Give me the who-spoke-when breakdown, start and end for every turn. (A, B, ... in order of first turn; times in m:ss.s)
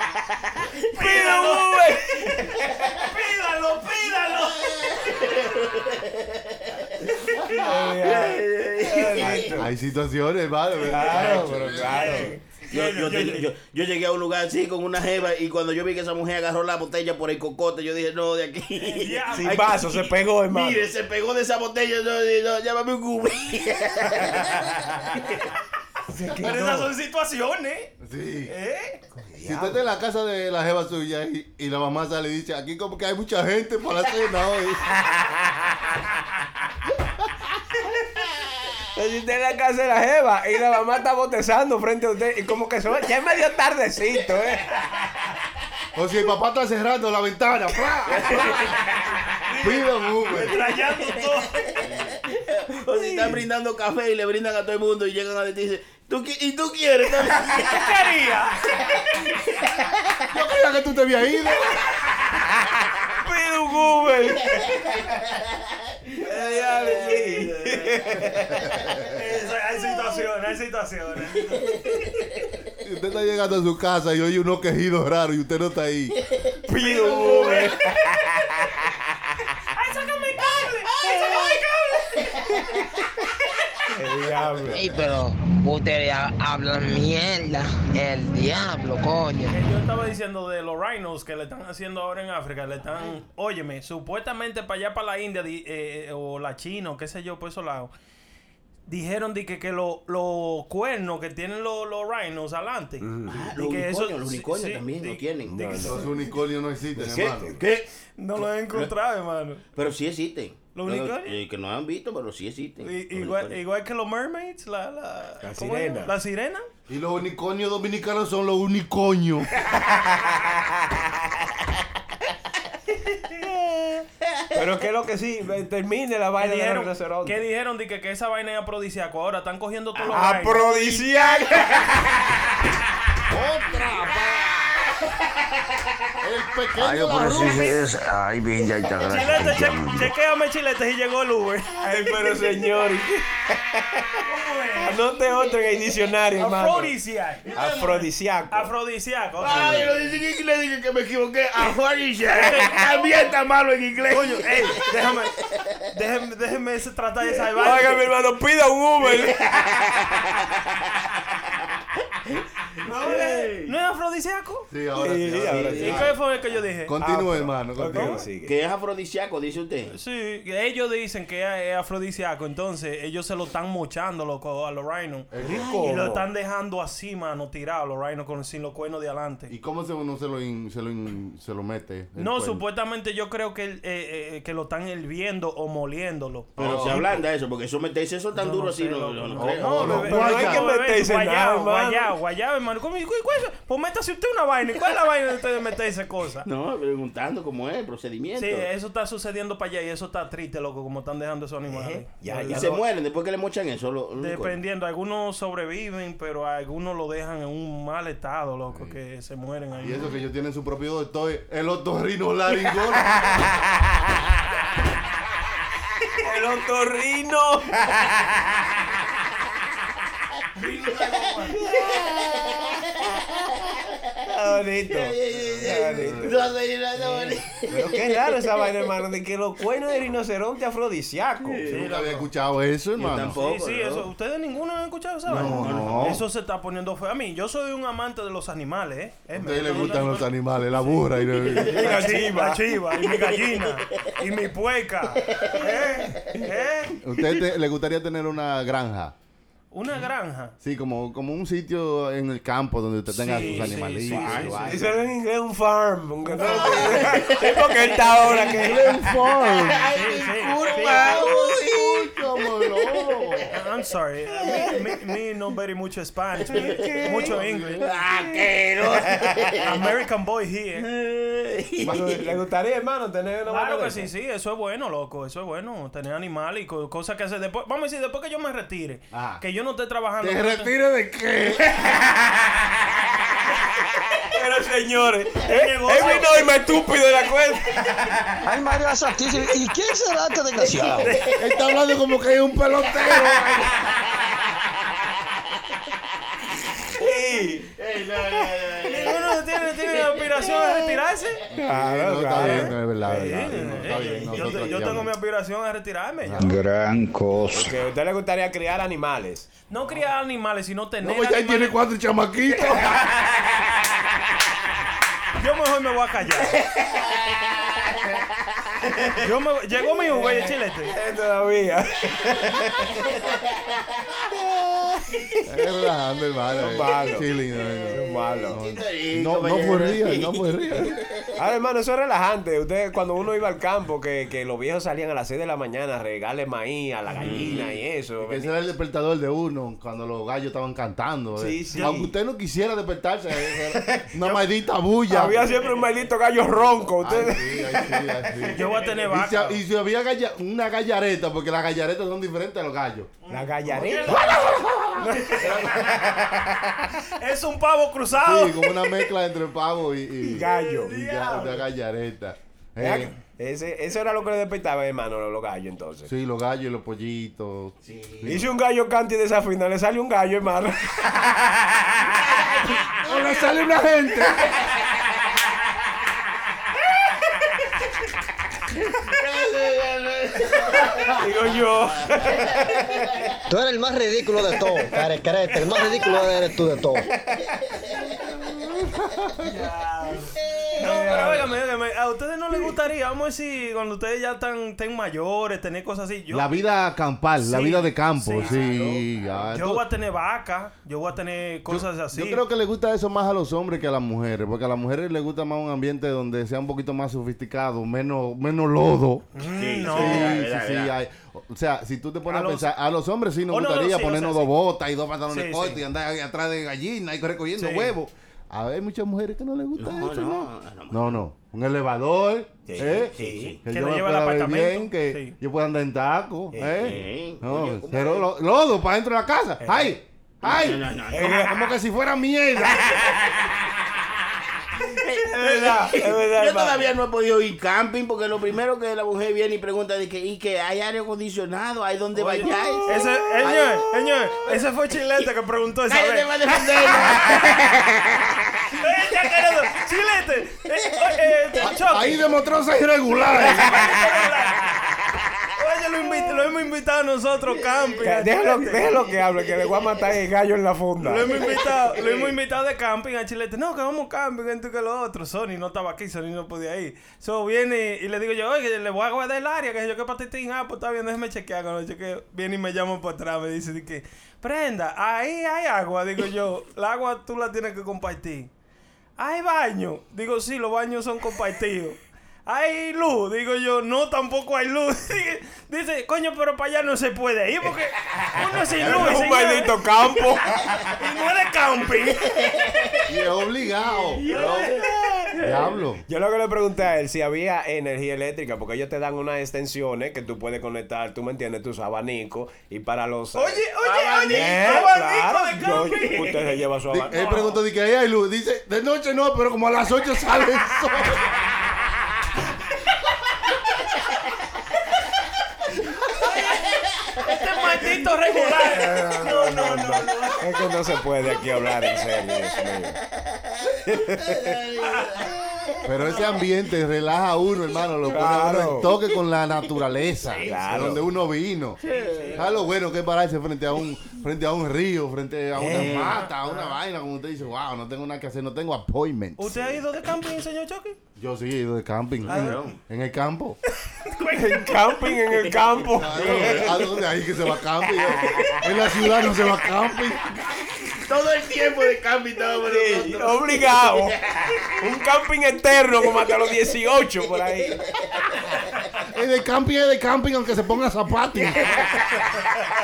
0:00.9-0:02.3 A
0:01.0-0:02.7 B
0:02.9-0:05.0 A
0:04.7-0:09.5 C
0:07.5-0:09.7 B
0:09.5-0:12.2 D
0:10.8-0:12.4 B
0:11.8-0:13.5 A
0:12.7-0:19.9 C
0:18.8-0:20.0 A
0:19.3-0:20.9 B
0:20.5-0:25.4 C
0:26.1-0:26.9 B
0:26.4-0:27.9 A
0:28.0-0:28.5 D
0:28.5-0:29.0 A
0:29.3-0:29.8 B
0:29.4-0:34.9 D
0:39.0-0:44.7 B
0:45.9-0:48.6 D
0:48.1-0:48.8 C
0:49.4-0:51.8 A
0:49.6-0:50.6 D
0:51.8-0:57.9 C
0:51.8-0:52.1 D
0:52.9-0:53.3 B
0:57.5-0:58.8 A
0:59.2-0:59.8 C
1:00.3-1:01.9 D
1:03.2-1:04.8 B
1:06.2-1:08.6 B
1:06.4-1:08.0 C
1:08.7-1:09.1 D
1:09.1-1:11.9 A
1:12.8-1:16.1 D
1:16.7-1:18.9 B
1:17.0-1:17.6 C
1:17.0-1:17.7 A
1:19.7-1:21.8 A
1:23.9-1:24.9 B
1:24.7-1:29.6 E
1:29.5-1:37.9 A
1:38.9-1:45.9 A
1:43.0-1:43.4 B
1:43.3-1:45.9 C
1:45.5-1:46.0 B
1:45.8-1:47.6 D
1:47.0-1:47.9 C
1:47.2-1:47.6 B
1:48.2-1:49.6 A
1:49.8-1:53.6 C
1:50.7-1:51.4 A
1:52.8-1:56.7 A
1:55.4-1:56.1 B
1:56.9-1:59.5 D
1:59.9-2:00.6 B
2:04.5-2:07.4 B
2:06.4-2:11.1 A
2:10.0-2:12.2 B
2:13.3-2:14.7 D
2:16.2-2:17.8 D
2:17.2-2:17.8 C
2:19.0-2:19.2 C
2:19.0-2:21.8 A
2:21.8-2:24.2 B
2:24.2-2:25.0 A
2:24.8-2:26.9 B
2:26.4-2:30.0 A
2:27.5-2:28.7 B
2:29.4-2:35.2 C
2:32.3-2:33.2 A
2:34.1-2:35.3 A
2:35.9-2:38.0 A
2:37.6-2:39.5 B
2:39.0-2:39.7 C
2:42.8-2:44.7 A
2:42.9-2:43.7 C
2:44.7-2:46.2 D
2:45.0-2:46.0 B
2:45.4-2:46.1 C
2:45.8-2:46.9 A
2:46.9-2:48.2 D
2:47.0-2:48.5 B
2:47.9-2:48.2 A
2:48.4-2:50.0 C
2:49.9-2:59.5 A
2:55.3-2:55.7 D
2:55.4-2:56.2 B
2:59.5-3:02.6 D
3:02.2-3:07.0 A
3:06.6-3:07.1 D
3:06.6-3:10.1 C
3:08.3-3:16.5 A
3:09.4-3:10.7 D
3:09.9-3:12.1 B
3:16.4-3:18.7 C
3:18.4-3:22.7 A
3:21.7-3:22.8 B
3:22.5-3:24.6 C
3:24.2-3:30.1 A
3:28.7-3:29.0 D
3:29.8-3:33.3 D
3:36.2-3:38.1 B
3:40.6-3:41.7 A
3:41.6-3:42.8 C
3:44.2-3:51.6 B
3:44.9-3:48.0 C
3:45.3-3:46.4 D
3:51.4-3:51.9 C
3:51.7-3:52.3 A
3:51.7-3:53.4 D
3:53.0-3:54.1 C
3:53.3-4:01.0 A
3:55.2-3:56.2 D
3:55.3-3:56.2 C
3:59.3-4:01.9 D
4:01.6-4:02.6 B
4:01.7-4:07.0 A
4:02.9-4:04.1 C
4:05.2-4:06.1 C
4:07.0-4:09.1 D
4:09.7-4:10.5 A
4:10.6-4:14.9 D
4:13.1-4:14.6 A
4:13.3-4:14.9 C
4:14.6-4:19.0 B
4:16.4-4:17.3 D
4:16.4-4:23.5 C
4:18.3-4:20.0 D
4:19.9-4:21.4 A
4:20.6-4:23.5 D
4:23.5-4:27.9 A
4:24.4-4:24.6 C
4:26.5-4:29.9 C
4:26.5-4:29.5 B
4:29.6-4:30.9 A
4:30.8-4:32.2 C
4:31.8-4:34.1 B
4:33.5-4:40.7 A
4:39.1-4:39.4 D
4:40.2-4:41.9 D
4:44.2-4:48.2 B
4:45.4-4:46.5 A
4:48.4-4:51.2 F
4:51.0-4:51.3 C
4:51.4-4:53.6 D
4:57.0-4:57.7 B
4:57.7-4:59.4 C
4:58.8-5:01.4 A
5:00.1-5:00.9 C
5:01.5-5:05.1 D
5:01.6-5:04.0 B
5:02.4-5:06.5 A
5:06.2-5:06.6 D
5:06.4-5:07.7 F
5:07.5-5:09.5 B
5:09.7-5:11.8 A
5:11.0-5:13.1 D
5:12.6-5:13.3 B
5:15.4-5:16.6 A
5:16.9-5:18.0 C
5:19.2-5:20.9 A
5:20.1-5:23.1 B
5:25.4-5:31.0 D
5:26.6-5:27.3 B
5:27.9-5:28.6 B
5:28.5-5:31.3 C
5:31.4-5:38.5 B
5:37.2-5:37.7 C
5:37.2-5:37.7 D
5:38.2-5:45.5 D
5:41.4-5:42.1 B
5:43.7-5:44.1 B
5:45.1-5:47.7 B
5:47.0-5:53.1 D
5:48.5-5:49.6 A
5:53.2-5:55.6 A
5:53.3-5:54.5 B
5:55.7-5:56.6 B
5:57.1-5:58.9 A
5:58.2-6:03.1 D
6:00.2-6:01.0 B
6:00.4-6:01.6 A
6:02.8-6:06.1 B
6:06.1-6:08.4 D
6:07.8-6:08.4 C
6:08.2-6:11.8 B
6:13.0-6:14.6 D
6:19.0-6:21.1 C
6:20.9-6:23.1 B
6:23.5-6:27.1 F
6:25.7-6:26.0 B
6:29.0-6:29.4 D
6:29.4-6:36.5 A
6:30.7-6:31.5 B
6:36.3-6:39.8 D
6:37.4-6:38.9 A
6:39.5-6:42.4 A
6:41.7-6:49.3 D
6:49.3-6:50.4 A
6:49.4-6:50.9 C
6:49.8-7:13.1 D
6:52.3-6:52.7 A
6:53.5-6:54.5 A
6:55.3-6:55.8 A
6:57.6-6:57.9 A
6:59.8-7:01.2 C
7:02.7-7:03.6 B
7:03.2-7:03.6 C
7:03.7-7:05.3 A
7:06.5-7:07.0 B
7:06.8-7:08.3 C
7:09.6-7:09.9 B
7:10.4-7:11.5 C
7:11.1-7:11.6 B
7:14.9-7:24.5 C
7:15.2-7:16.9 B
7:22.1-7:27.3 A
7:25.9-7:28.7 C
7:28.8-7:32.3 A
7:31.6-7:34.0 D
7:33.3-7:34.7 A
7:35.6-7:38.9 A
7:38.0-7:41.3 B
7:41.0-7:58.5 A
7:41.9-7:42.3 C
7:59.2-8:09.8 A
8:08.8-8:10.6 B
8:10.8-8:12.6 A
8:13.0-8:14.7 D
8:14.2-8:14.9 A
8:14.3-8:14.8 C
8:14.5-8:15.3 B
8:15.4-8:16.0 D
8:16.1-8:23.6 B
8:23.3-8:26.5 A
8:23.8-8:24.8 C
8:24.3-8:27.3 B
8:26.9-8:31.3 D
8:27.1-8:27.6 A
8:37.2-8:40.5 A
8:38.7-8:43.0 B
8:43.8-8:44.6 B
8:44.3-8:45.3 C
8:44.9-8:45.2 A
8:45.8-8:51.8 D
8:46.0-8:46.4 A
8:48.1-8:48.9 B
8:50.4-8:50.8 C
8:50.4-8:51.1 B
8:51.8-8:52.6 C
8:51.9-8:52.4 A
8:52.3-8:59.8 D
8:55.6-8:56.1 B
8:55.6-8:56.2 C
8:56.2-8:56.7 A
8:59.4-9:01.0 A
9:01.2-9:03.6 D
9:02.2-9:02.8 C
9:02.3-9:02.6 A
9:04.1-9:04.3 A
9:04.3-9:06.8 B
9:05.3-9:07.0 C
9:05.9-9:10.2 D
9:08.2-9:08.7 C
9:10.8-9:14.7 C
9:12.6-9:14.2 B
9:14.8-9:17.8 B
9:19.1-9:21.8 D
9:21.6-9:22.0 C